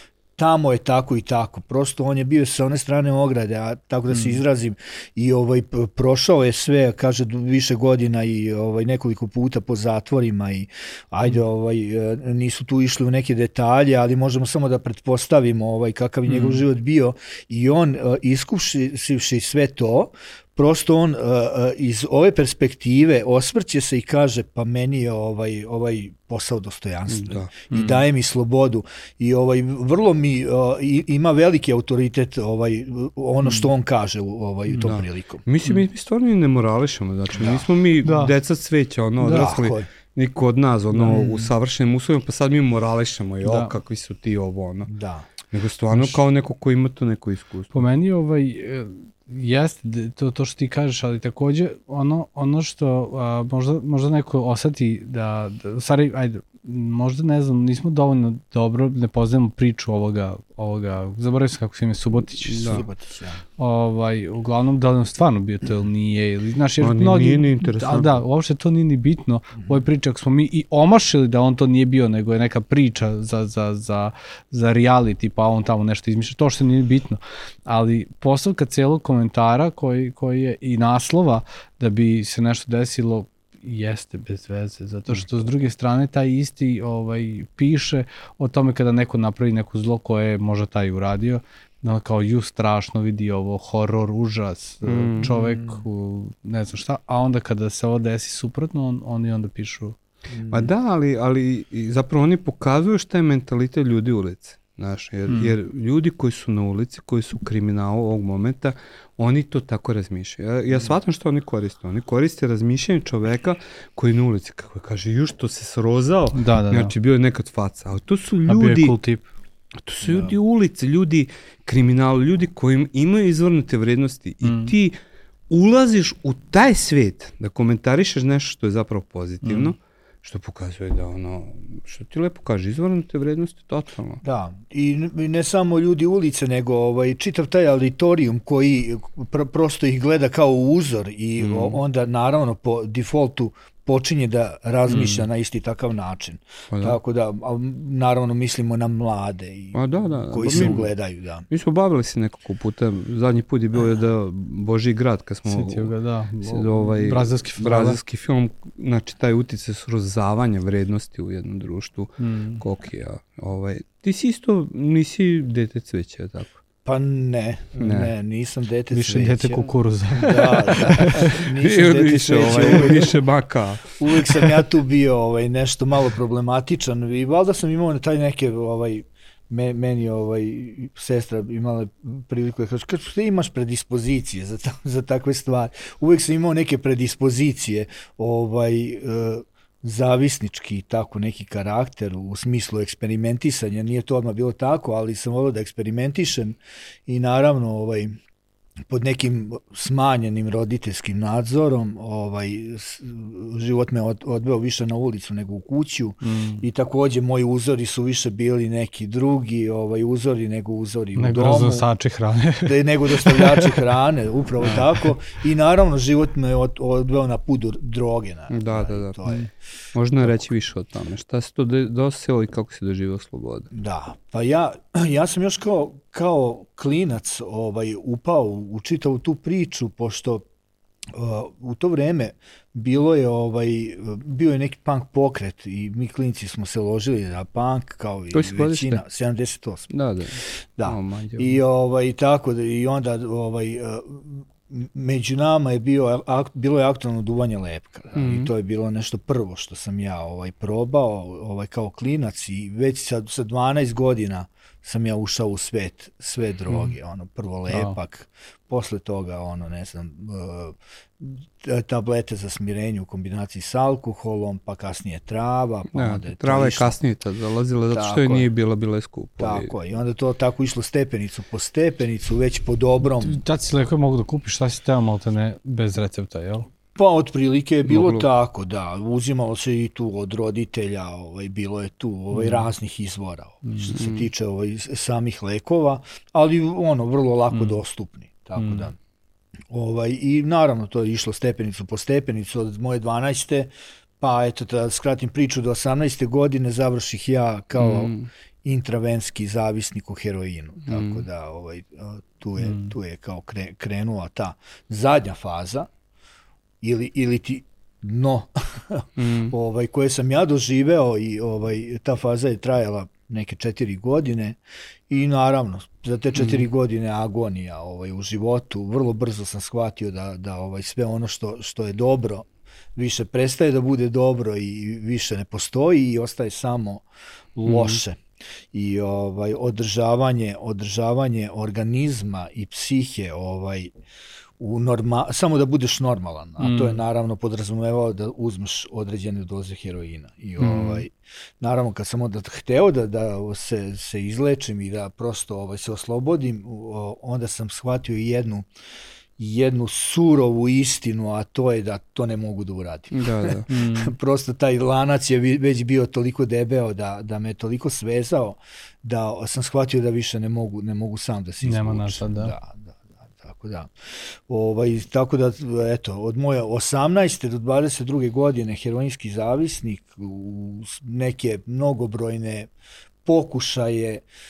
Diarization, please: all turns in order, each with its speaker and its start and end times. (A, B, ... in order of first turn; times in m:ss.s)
0:00.4-0:35.4 A
0:04.1-0:04.4 B
0:16.3-0:16.6 B
0:27.1-0:27.5 C
0:27.7-0:28.0 B
0:33.4-0:33.7 B
0:34.7-0:44.9 C
0:37.3-0:37.7 A
0:38.0-0:38.3 B
0:39.2-0:39.9 A
0:41.0-0:41.5 A
0:43.4-0:43.7 B
0:44.9-0:45.3 A
0:45.5-0:47.8 C
0:45.9-0:46.2 B
0:47.7-1:02.8 B
1:02.5-1:02.9 C
1:02.6-1:03.4 A
1:03.6-1:40.0 B
1:06.8-1:08.2 C
1:34.8-1:35.3 C
1:35.2-1:35.8 A
1:40.3-1:40.7 A
1:40.5-1:59.0 C
1:45.3-1:45.5 B
1:50.7-1:51.0 A
1:56.3-1:56.9 B
1:58.5-1:59.3 B
1:59.8-2:05.0 C
2:00.0-2:00.4 A
2:04.4-2:04.7 B
2:05.5-2:14.2 C
2:09.4-2:09.7 B
2:14.2-2:31.5 A
2:21.4-2:21.8 C
2:24.9-2:25.2 C
2:26.7-2:27.0 C
2:29.7-2:30.9 C
2:30.4-2:30.8 B
2:31.5-2:46.6 C
2:35.5-2:38.0 B
2:42.2-2:42.6 B
2:46.8-2:53.2 A
2:47.8-2:48.1 C
2:48.9-2:51.3 B
2:51.2-2:54.0 C
2:54.0-3:18.1 A
3:18.9-3:31.9 A
3:26.2-3:26.6 B
3:31.2-3:33.8 B
3:32.6-3:39.5 A
3:34.6-3:35.1 B
3:38.5-3:39.3 C
3:40.0-3:43.7 C
3:43.7-3:50.4 A
3:51.1-3:59.9 A
3:58.3-3:59.0 C
3:59.9-4:01.6 C
4:00.8-4:27.0 A
4:08.2-4:08.5 C
4:17.7-4:18.0 B
4:25.9-4:29.7 C
4:27.9-4:28.5 A
4:29.4-4:33.4 A
4:33.2-4:36.7 B
4:37.0-4:49.0 A
4:37.8-4:38.3 C
4:42.3-4:42.7 B
4:43.7-4:43.9 B
4:43.9-4:44.3 C
4:47.5-4:47.8 B
4:48.6-4:48.9 B
4:49.7-5:05.9 A
4:57.8-4:58.3 C
5:00.9-5:01.2 C
5:02.6-5:03.0 B
5:06.8-5:28.2 A
5:09.2-5:09.5 C
5:27.7-5:28.0 C
5:28.7-5:33.9 A
5:34.6-5:48.7 A
5:36.6-5:37.0 B
5:40.6-5:41.0 B
5:49.4-6:03.9 A
5:53.1-5:53.7 C
5:53.7-5:54.1 B
6:01.6-6:02.5 B
6:04.5-6:12.7 A
6:13.2-6:14.2 A